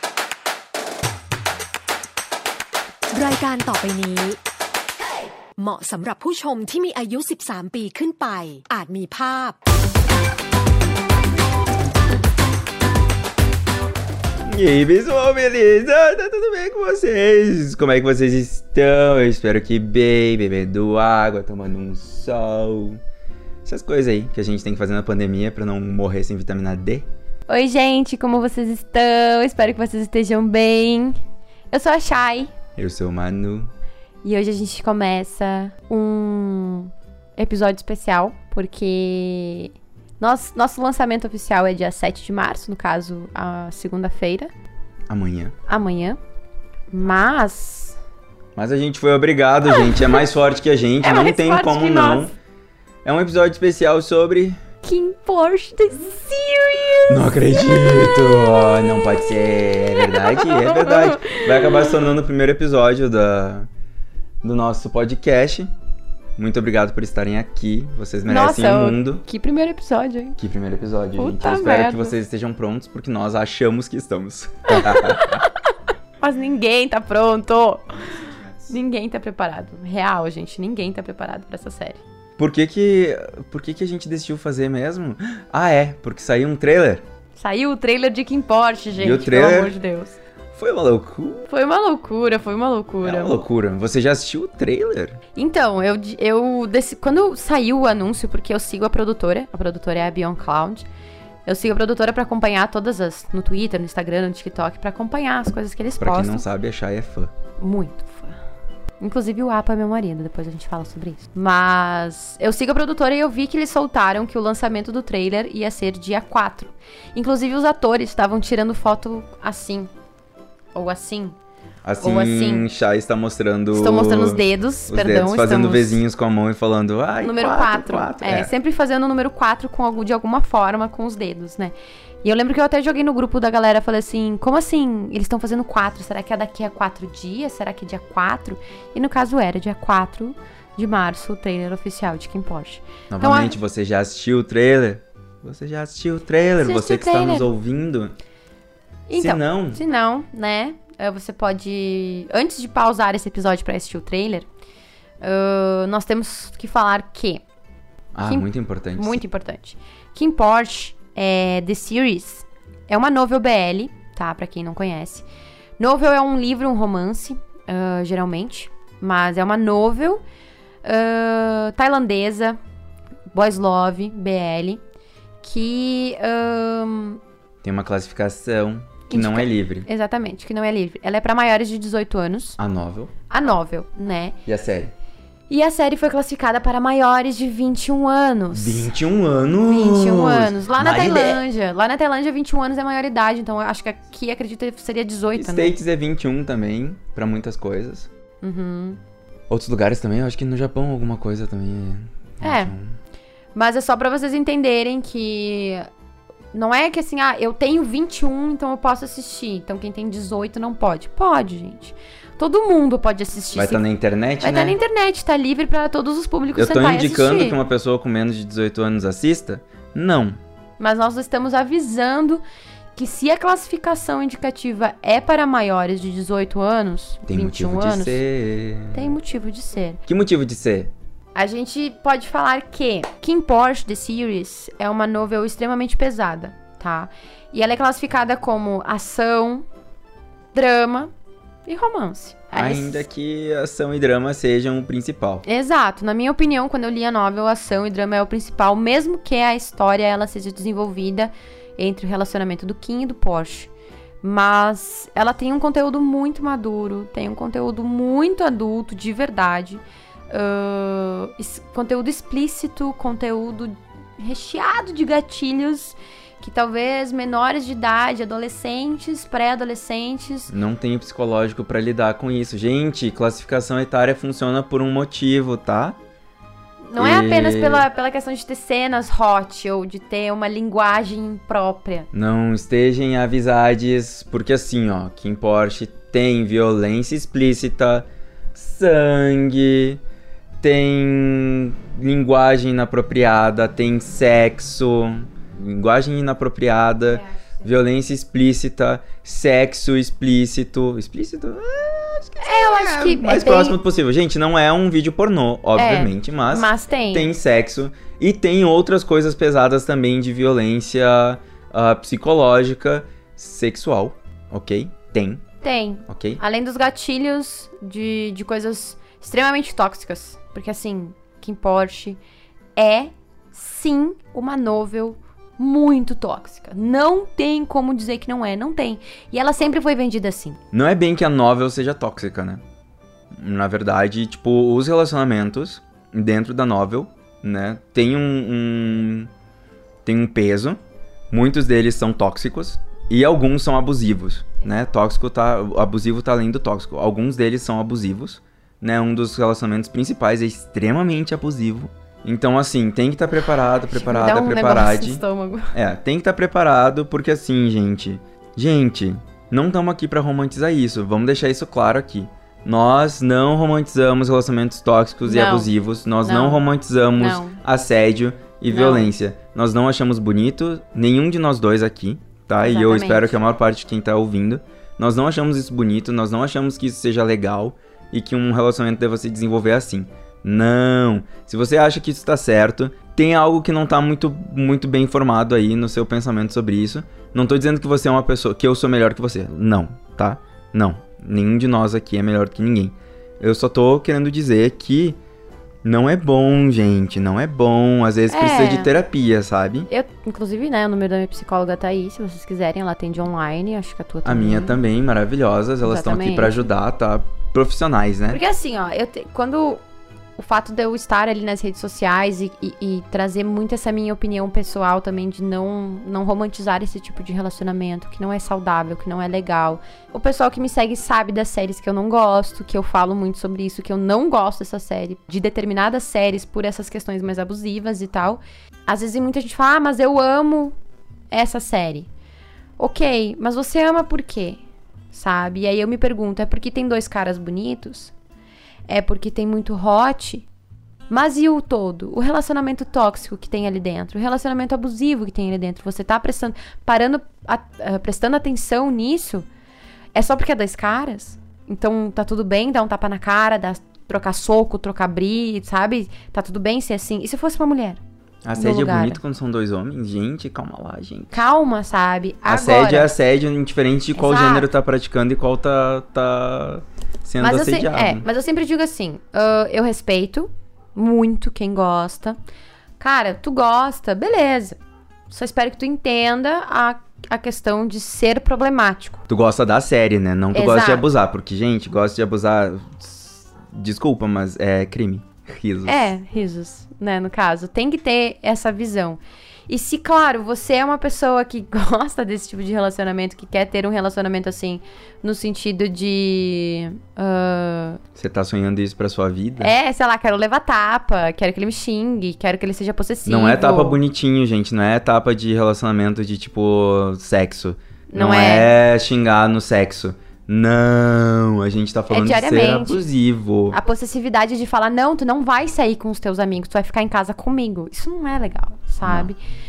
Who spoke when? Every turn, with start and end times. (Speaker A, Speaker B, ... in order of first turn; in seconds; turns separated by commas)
Speaker A: 3.1-4.4, Speaker A: 5.6-9.6, Speaker B: 14.4-23.0, Speaker B: 23.6-27.1, Speaker C: 27.5-31.2, Speaker C: 31.7-32.5, Speaker B: 32.8-33.7, Speaker C: 34.2-44.5, Speaker B: 45.1-45.5, Speaker C: 45.7-46.2, Speaker C: 46.9-48.0, Speaker B: 48.5-52.3, Speaker C: 49.7-50.2, Speaker C: 51.0-52.3, Speaker B: 53.0-54.6, Speaker C: 54.8-62.0, Speaker B: 57.1-63.7, Speaker B: 64.4-65.7, Speaker B: 66.3-69.2, Speaker C: 68.3-70.4, Speaker B: 70.4-75.4, Speaker C: 71.2-72.2, Speaker C: 74.7-75.5, Speaker C: 76.2-77.9, Speaker B: 77.9-78.7, Speaker C: 78.7-82.0, Speaker B: 82.4-87.0, Speaker C: 87.3-90.2, Speaker B: 89.0-89.7, Speaker B: 90.5-91.5, Speaker C: 91.5-93.4, Speaker B: 93.0-95.2, Speaker C: 95.3-100.8, Speaker C: 101.5-106.4, Speaker B: 106.0-107.3, Speaker C: 107.6-108.4, Speaker C: 109.0-119.9, Speaker C: 120.7-121.3, Speaker B: 121.8-128.5, Speaker C: 122.0-122.7, Speaker C: 123.7-126.0, Speaker C: 127.2-143.6, Speaker B: 143.1-148.1, Speaker C: 146.6-147.5, Speaker C: 149.1-154.4, Speaker B: 149.2-149.8, Speaker C: 155.2-157.4, Speaker B: 158.1-159.2, Speaker C: 158.3-165.2, Speaker C: 165.8-170.2, Speaker C: 170.8-172.6, Speaker C: 173.3-174.8, Speaker C: 175.4-177.2, Speaker B: 177.6-179.9, Speaker C: 179.1-182.6, Speaker B: 182.6-183.1, Speaker C: 183.3-184.3, Speaker B: 184.4-184.9, Speaker C: 185.5-188.9, Speaker B: 188.5-191.4, Speaker C: 189.7-195.7, Speaker B: 195.3-198.1, Speaker C: 198.4-199.0, Speaker B: 199.5-202.9, Speaker C: 202.4-202.7, Speaker C: 203.5-205.9, Speaker C: 206.5-213.8, Speaker B: 213.5-214.8, Speaker C: 214.4-217.6, Speaker B: 216.5-220.4, Speaker C: 220.8-222.4, Speaker C: 222.9-228.2, Speaker B: 227.3-229.2, Speaker C: 228.9-230.0, Speaker B: 230.1-230.9, Speaker C: 231.3-239.7, Speaker C: 240.5-241.1, Speaker C: 241.7-243.1, Speaker B: 242.5-245.4, Speaker C: 245.4-253.7, Speaker C: 254.2-270.5, Speaker B: 270.5-276.0, Speaker C: 276.9-282.1, Speaker B: 276.9-277.9, Speaker B: 282.1-290.0, Speaker B: 290.6-315.4, Speaker C: 297.1-297.6, Speaker C: 302.4-303.8, Speaker C: 305.8-307.3, Speaker C: 315.6-322.2, Speaker B: 316.1-316.4, Speaker C: 322.8-330.6, Speaker B: 330.7-332.6, Speaker B: 333.3-339.3, Speaker B: 340.0-395.2, Speaker C: 353.9-355.7, Speaker C: 365.2-365.7, Speaker C: 366.2-366.6, Speaker C: 367.2-367.6, Speaker C: 368.7-369.1, Speaker C: 372.6-373.4, Speaker B: 395.8-399.9, Speaker C: 398.3-398.9, Speaker C: 399.9-404.8, Speaker B: 404.2-408.4, Speaker C: 405.8-406.6, Speaker C: 408.3-409.8, Speaker C: 410.4-430.7, Speaker C: 431.3-432.1, Speaker C: 432.8-434.6, Speaker C: 435.1-438.1, Speaker C: 438.9-440.5, Speaker C: 441.1-449.5, Speaker C: 450.1-458.0, Speaker B: 458.4-461.4, Speaker C: 458.5-459.2, Speaker C: 461.3-463.1, Speaker B: 462.5-468.2, Speaker C: 464.1-464.7, Speaker C: 467.4-472.4, Speaker C: 473.0-474.8, Speaker C: 475.3-479.2, Speaker B: 479.3-486.1, Speaker C: 480.5-481.1, Speaker C: 485.9-498.0, Speaker B: 498.1-499.7, Speaker C: 499.6-504.0, Speaker B: 503.2-513.8, Speaker C: 508.1-508.7, Speaker C: 512.1-513.1, Speaker C: 513.7-519.4, Speaker B: 519.0-519.3